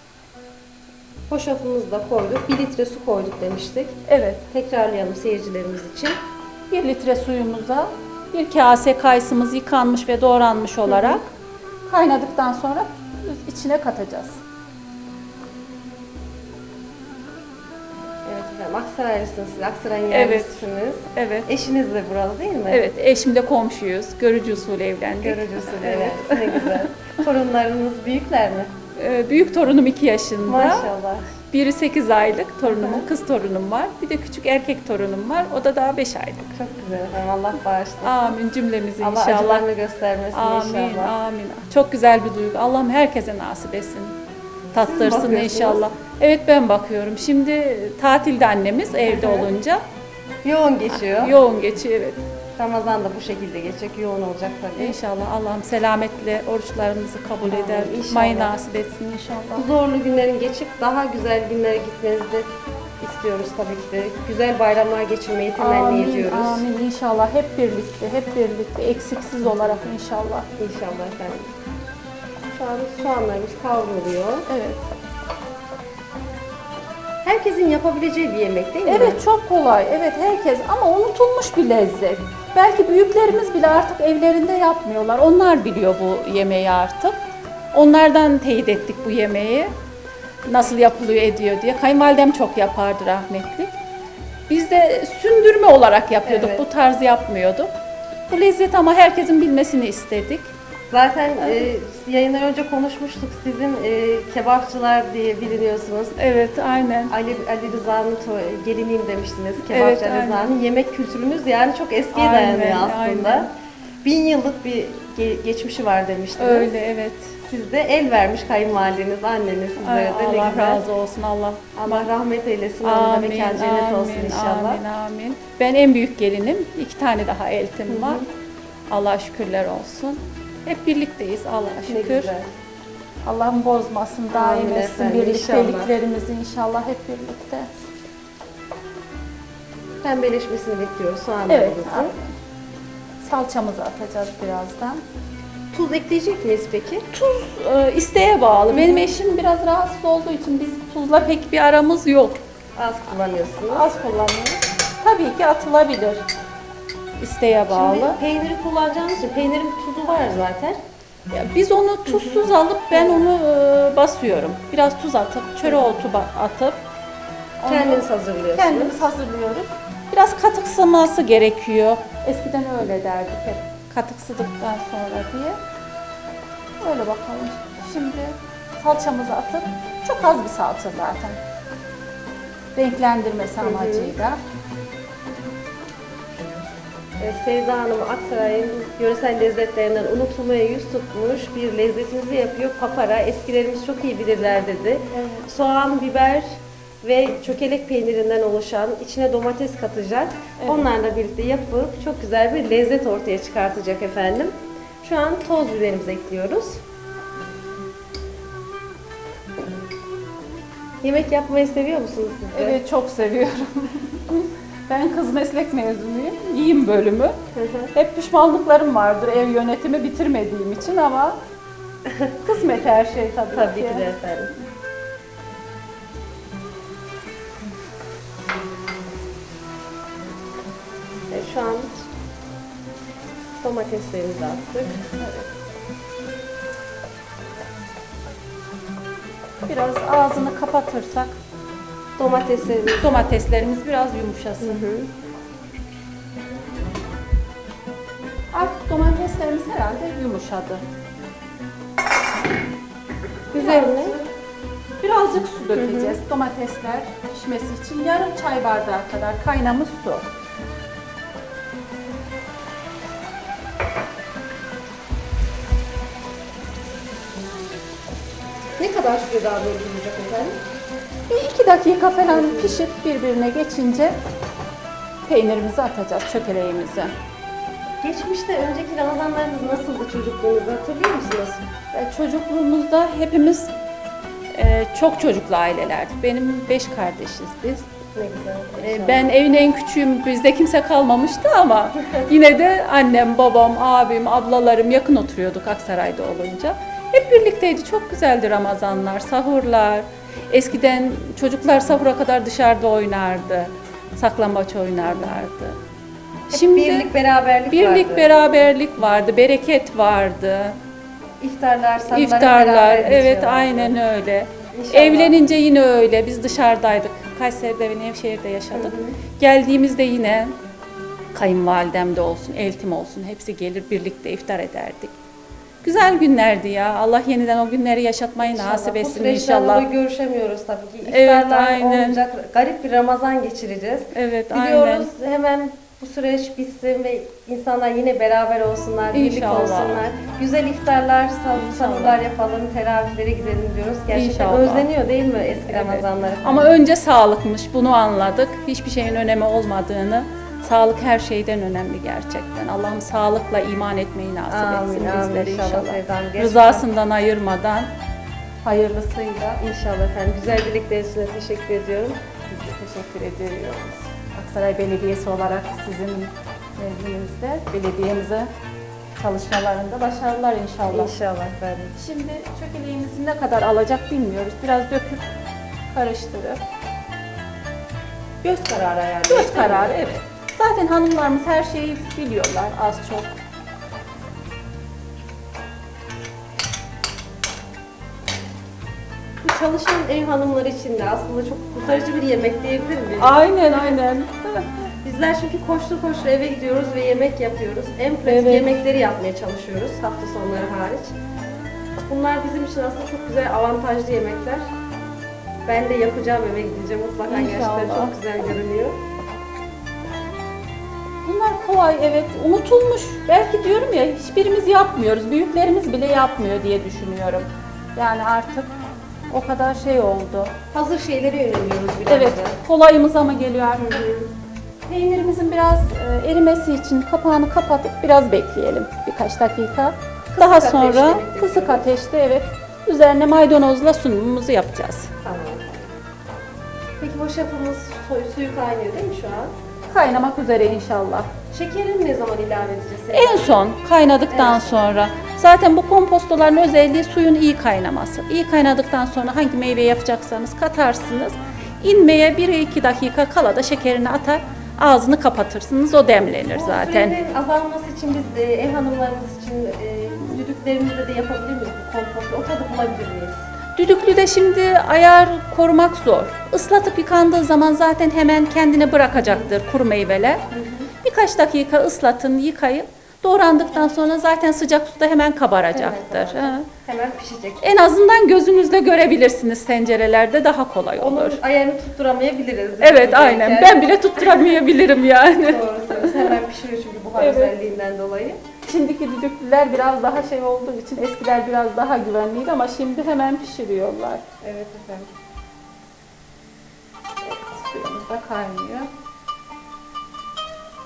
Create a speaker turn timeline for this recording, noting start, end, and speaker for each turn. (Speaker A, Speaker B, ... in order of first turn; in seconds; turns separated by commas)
Speaker A: 1.3-4.0, Speaker B: 4.1-4.5, Speaker A: 4.5-6.2, Speaker B: 6.7-11.3, Speaker A: 10.8-11.2, Speaker B: 11.8-14.4, Speaker A: 18.2-22.9, Speaker B: 20.1-21.5, Speaker B: 22.7-26.9, Speaker A: 25.2-28.7, Speaker B: 28.9-30.9, Speaker A: 30.4-31.3, Speaker B: 31.5-36.5, Speaker A: 32.7-33.1, Speaker A: 36.5-38.3, Speaker B: 38.0-39.7, Speaker A: 39.0-41.1, Speaker B: 40.3-44.2, Speaker B: 44.7-49.8, Speaker A: 44.8-45.9, Speaker A: 49.0-49.5, Speaker A: 50.4-51.3, Speaker B: 51.0-52.2, Speaker A: 52.6-55.0, Speaker B: 54.8-59.7, Speaker A: 57.5-58.5, Speaker A: 59.5-66.6, Speaker B: 65.6-70.5, Speaker A: 70.6-71.5, Speaker A: 72.5-74.5, Speaker B: 74.5-74.8, Speaker A: 77.2-79.2, Speaker B: 78.8-87.1, Speaker B: 87.7-89.7, Speaker B: 90.4-93.8, Speaker B: 94.5-97.7, Speaker A: 96.2-96.6, Speaker B: 98.3-100.5, Speaker A: 100.9-106.2, Speaker B: 101.4-101.7, Speaker B: 106.2-107.1, Speaker A: 107.1-113.5, Speaker B: 109.6-110.5, Speaker B: 112.1-113.5, Speaker A: 114.0-116.8, Speaker B: 116.4-117.4, Speaker A: 117.4-120.8, Speaker B: 119.8-122.1, Speaker A: 121.8-124.8, Speaker B: 122.8-128.2, Speaker A: 127.9-128.2, Speaker B: 128.9-132.3, Speaker A: 131.9-132.5, Speaker B: 133.2-137.7, Speaker A: 134.3-135.9, Speaker A: 140.0-142.1, Speaker B: 141.5-142.3, Speaker B: 143.2-145.0, Speaker A: 145.7-147.1, Speaker B: 147.1-152.4, Speaker A: 148.7-149.1, Speaker A: 152.8-153.9, Speaker B: 153.7-156.2, Speaker B: 157.2-158.2, Speaker A: 157.7-160.8, Speaker B: 161.3-166.8, Speaker A: 162.1-163.2, Speaker B: 167.6-175.6, Speaker A: 167.7-169.1, Speaker B: 176.8-181.4, Speaker B: 182.8-184.4, Speaker A: 183.6-184.1, Speaker A: 187.2-206.8, Speaker B: 195.1-195.5, Speaker B: 200.6-200.9, Speaker A: 211.0-212.8, Speaker B: 212.5-217.3, Speaker A: 217.5-217.9, Speaker B: 217.9-221.4, Speaker A: 222.1-222.3, Speaker B: 222.4-224.1, Speaker A: 223.5-224.5, Speaker A: 231.3-232.0, Speaker A: 233.6-234.9, Speaker B: 235.2-235.5, Speaker B: 239.7-241.3, Speaker A: 242.2-243.3, Speaker B: 243.0-244.8, Speaker A: 244.6-245.1, Speaker B: 248.5-250.8, Speaker A: 253.5-254.1, Speaker B: 253.5-254.3, Speaker B: 255.0-260.3, Speaker A: 255.7-256.2, Speaker A: 268.8-270.6, Speaker B: 271.3-274.1, Speaker A: 272.3-272.8, Speaker B: 275.3-277.1, Speaker A: 278.0-281.6, Speaker B: 281.9-283.7, Speaker B: 284.5-287.9, Speaker A: 288.1-289.3, Speaker B: 288.8-305.8, Speaker A: 305.0-305.3, Speaker B: 306.5-307.1, Speaker A: 306.5-308.3, Speaker B: 307.7-310.8, Speaker A: 311.4-313.9, Speaker B: 312.0-320.5, Speaker A: 314.7-315.4, Speaker A: 318.7-319.2, Speaker B: 321.3-325.1, Speaker B: 325.8-329.9, Speaker A: 328.5-346.7, Speaker B: 331.1-332.2, Speaker B: 334.1-335.1, Speaker B: 339.1-340.0, Speaker B: 341.6-342.2, Speaker B: 344.1-344.9, Speaker B: 345.6-357.9, Speaker A: 354.5-356.8, Speaker B: 358.6-359.6, Speaker A: 359.6-362.2, Speaker B: 362.5-368.5, Speaker B: 369.2-371.1, Speaker A: 370.9-371.9, Speaker B: 371.9-375.3, Speaker B: 375.9-376.6, Speaker A: 378.4-379.9, Speaker B: 379.3-383.3, Speaker A: 389.4-393.4, Speaker B: 393.2-394.7, Speaker A: 395.0-401.1, Speaker B: 398.2-398.7, Speaker A: 402.0-404.6, Speaker A: 405.6-409.0, Speaker B: 407.3-408.1, Speaker B: 411.2-418.7, Speaker B: 419.3-420.5, Speaker A: 420.7-422.6, Speaker B: 422.1-424.0, Speaker A: 423.8-424.3, Speaker B: 424.9-435.1, Speaker A: 430.3-431.9, Speaker A: 435.2-435.9, Speaker A: 437.0-439.5, Speaker B: 439.9-441.3, Speaker A: 441.5-443.6, Speaker B: 443.1-457.2, Speaker A: 444.3-444.9, Speaker A: 456.5-463.4, Speaker B: 463.8-470.4, Speaker A: 470.5-470.9, Speaker B: 471.0-476.7, Speaker A: 475.7-477.7, Speaker B: 477.6-481.4, Speaker A: 481.0-484.6, Speaker B: 482.8-486.4, Speaker A: 485.4-488.4, Speaker B: 487.2-487.5, Speaker B: 488.6-494.2, Speaker A: 494.4-495.1, Speaker B: 497.2-498.9